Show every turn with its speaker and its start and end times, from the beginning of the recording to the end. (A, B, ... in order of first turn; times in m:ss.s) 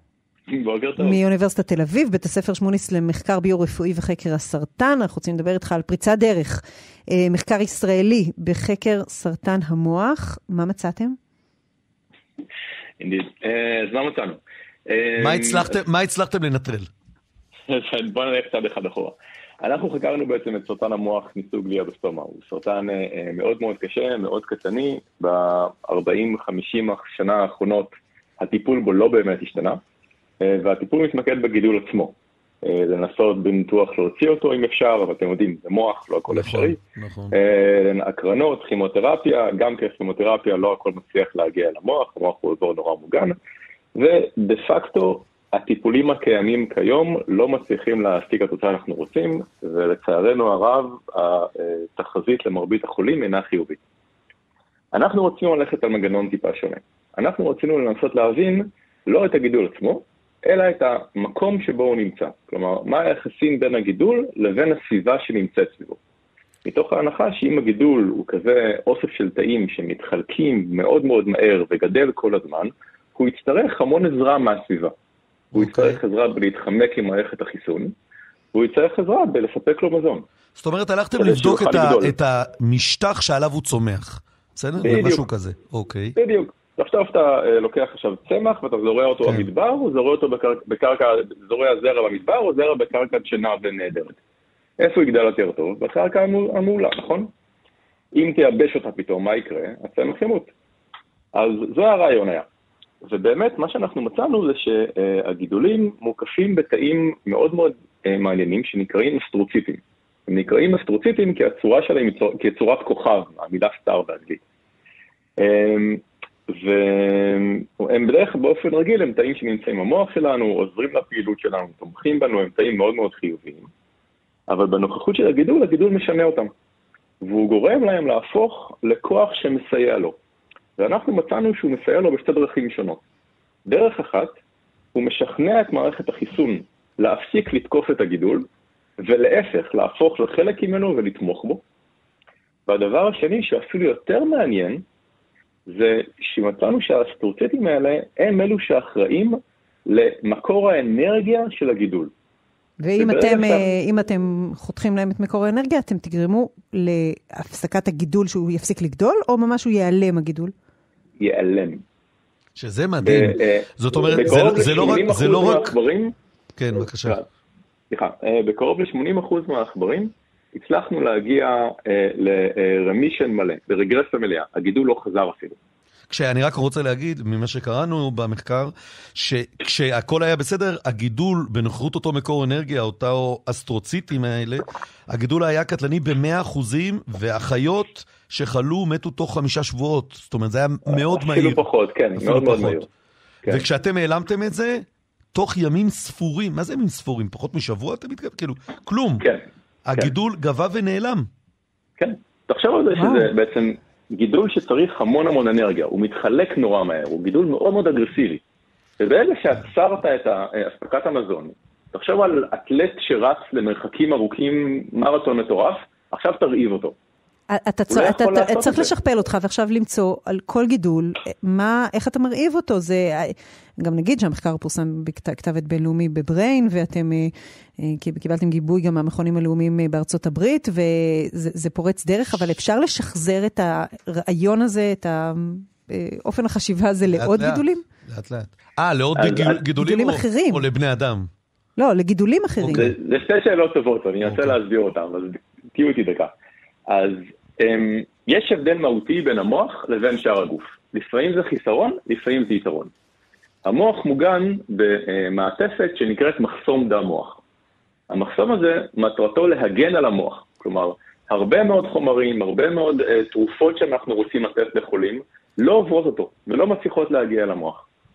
0:00.5-0:01.2 A
0:01.0-0:11.2 B
0:13.0-0:15.7 A
0:15.2-0:16.9 C
0:17.7-0:29.8 A
0:30.4-0:36.8 A
0:36.3-0:37.4 C
0:37.3-0:43.4 A
0:44.0-0:53.8 A
0:54.9-1:06.0 A
1:06.6-1:14.9 A
1:15.5-1:16.0 C
1:15.5-1:17.9 A
1:18.5-1:20.2 A
1:20.6-1:26.2 C
1:21.2-1:22.1 A
1:24.8-1:25.3 A
1:26.2-1:34.2 A
1:29.2-1:29.5 C
1:34.8-1:37.3 A
1:38.1-1:40.5 A
1:41.3-1:42.5 A
1:43.0-1:54.4 A
1:55.4-2:03.7 A
2:04.5-2:06.5 A
2:07.2-2:10.2 A
2:10.8-2:13.0 A
2:13.7-2:14.4 A
2:15.0-2:18.5 A
2:19.0-2:21.6 A
2:22.7-2:24.8 A
2:25.7-2:32.1 A
2:32.8-2:40.5 B
2:33.0-2:33.7 A
2:41.2-2:41.8 A
2:42.6-2:45.7 C
2:43.0-2:46.2 A
2:46.6-2:47.2 C
2:46.9-2:47.3 A
2:47.9-2:55.6 A
2:56.1-3:11.6 C
3:10.9-3:12.9 A
3:12.2-3:12.8 C
3:13.5-3:19.3 C
3:19.8-3:21.3 C
3:22.0-3:28.4 A
3:23.0-3:23.3 B
3:29.0-3:37.0 A
3:37.5-3:57.8 B
3:37.9-3:38.9 A
3:57.1-4:01.3 C
3:59.2-3:59.6 A
3:59.8-4:00.6 B
4:01.8-4:02.9 B
4:02.6-4:02.9 C
4:02.7-4:06.3 A
4:04.2-4:04.6 C
4:06.9-4:12.9 A
4:13.7-4:17.4 A
4:18.1-4:27.8 A